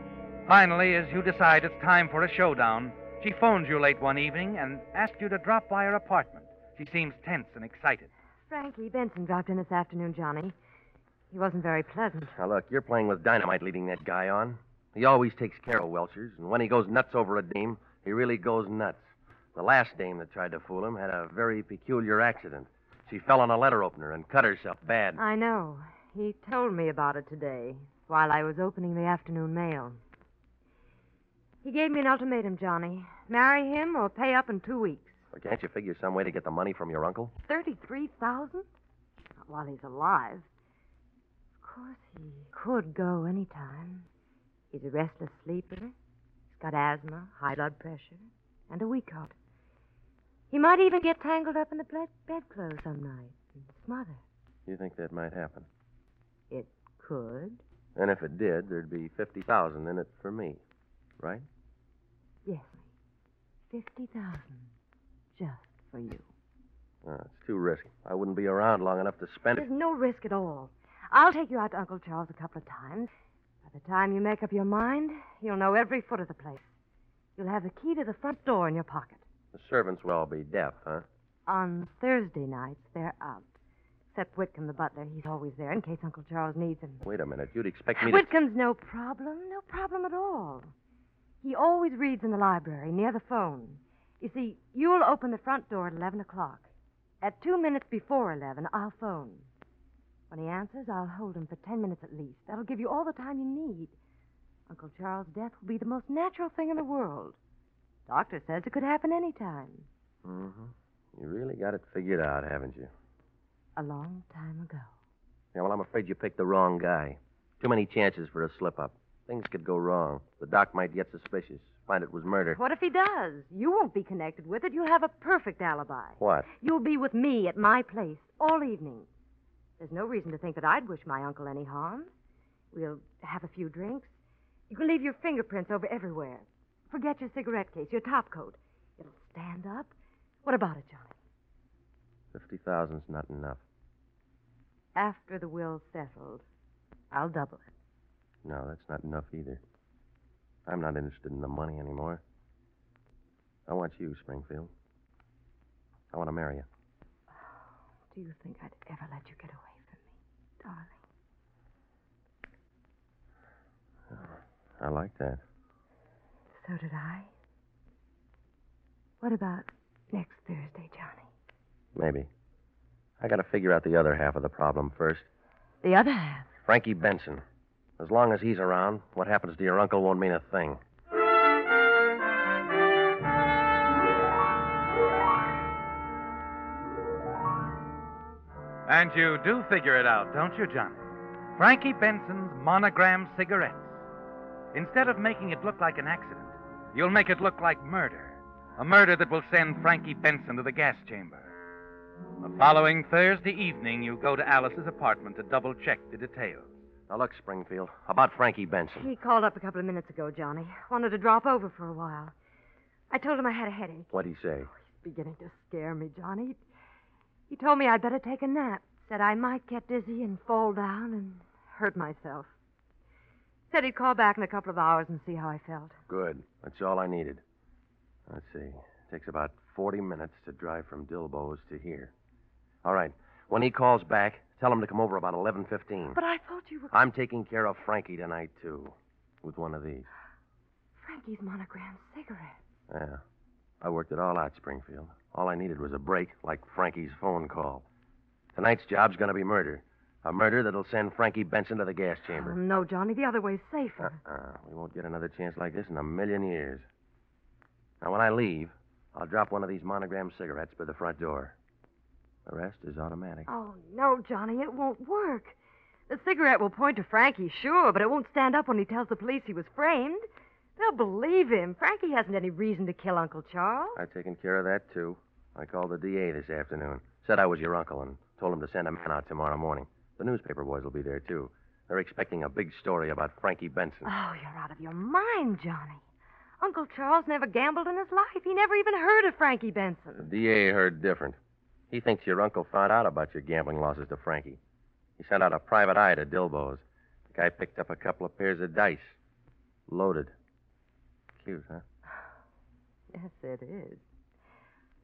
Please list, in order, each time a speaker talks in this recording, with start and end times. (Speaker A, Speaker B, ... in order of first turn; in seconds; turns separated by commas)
Speaker A: 0.5-8.1, Speaker B: 8.5-10.6, Speaker B: 11.3-12.3, Speaker C: 12.4-19.0, Speaker C: 19.6-25.2, Speaker B: 25.2-30.0, Speaker B: 31.6-35.2, Speaker C: 35.3-37.3, Speaker B: 37.5-38.7, Speaker B: 39.5-40.5, Speaker B: 41.6-44.1, Speaker B: 44.7-45.9, Speaker B: 46.5-49.4, Speaker B: 50.5-54.2, Speaker C: 54.7-55.7, Speaker B: 56.5-57.6, Speaker C: 58.0-60.6, Speaker C: 61.2-61.5, Speaker B: 62.5-62.8, Speaker B: 63.7-64.7, Speaker B: 65.4-66.3, Speaker C: 67.0-69.7, Speaker B: 69.6-73.1, Speaker B: 73.7-76.7, Speaker B: 77.4-79.2, Speaker C: 79.5-81.0, Speaker B: 81.5-83.5, Speaker B: 84.1-87.0, Speaker C: 87.0-88.3, Speaker B: 88.0-90.7, Speaker B: 91.4-96.7, Speaker B: 97.2-99.5, Speaker B: 100.3-103.9, Speaker B: 104.7-107.4, Speaker B: 108.1-109.9, Speaker C: 110.2-112.9, Speaker B: 113.8-114.9, Speaker C: 115.5-122.6, Speaker B: 122.5-129.1, Speaker C: 126.2-126.5, Speaker B: 129.8-132.1, Speaker B: 132.7-134.1, Speaker B: 134.7-139.9, Speaker B: 140.4-141.2, Speaker C: 142.3-143.6, Speaker B: 144.9-146.4, Speaker B: 147.1-147.7, Speaker C: 148.4-149.6, Speaker C: 150.7-152.2, Speaker C: 153.7-154.7, Speaker C: 156.1-156.7, Speaker B: 158.1-160.1, Speaker B: 160.6-161.0, Speaker C: 164.1-165.4, Speaker B: 166.6-167.3, Speaker B: 169.2-171.3, Speaker C: 171.9-172.3, Speaker C: 173.2-175.3, Speaker B: 175.8-176.5, Speaker C: 176.7-177.4, Speaker C: 178.0-180.8, Speaker A: 188.9-194.1, Speaker A: 194.7-201.5, Speaker A: 202.4-206.7, Speaker C: 207.1-209.1, Speaker B: 209.0-212.3, Speaker B: 213.1-216.6, Speaker C: 214.1-214.7, Speaker B: 217.5-222.5, Speaker B: 223.7-226.0, Speaker C: 226.1-227.4, Speaker C: 228.3-232.1, Speaker C: 232.8-236.2, Speaker B: 236.1-236.9, Speaker C: 236.9-240.1, Speaker B: 241.0-242.6, Speaker C: 242.9-243.2, Speaker C: 243.8-247.8, Speaker C: 248.5-252.6, Speaker B: 252.3-254.2, Speaker C: 254.0-256.9, Speaker C: 258.0-261.6, Speaker C: 262.5-263.5, Speaker B: 263.5-265.6, Speaker B: 266.1-270.2, Speaker B: 270.8-274.0, Speaker C: 274.0-284.1, Speaker B: 284.1-286.0, Speaker B: 286.6-290.3, Speaker C: 290.2-291.4, Speaker C: 291.9-294.6, Speaker C: 295.2-299.2, Speaker C: 299.9-300.3, Speaker C: 301.4-301.8, Speaker B: 303.1-304.0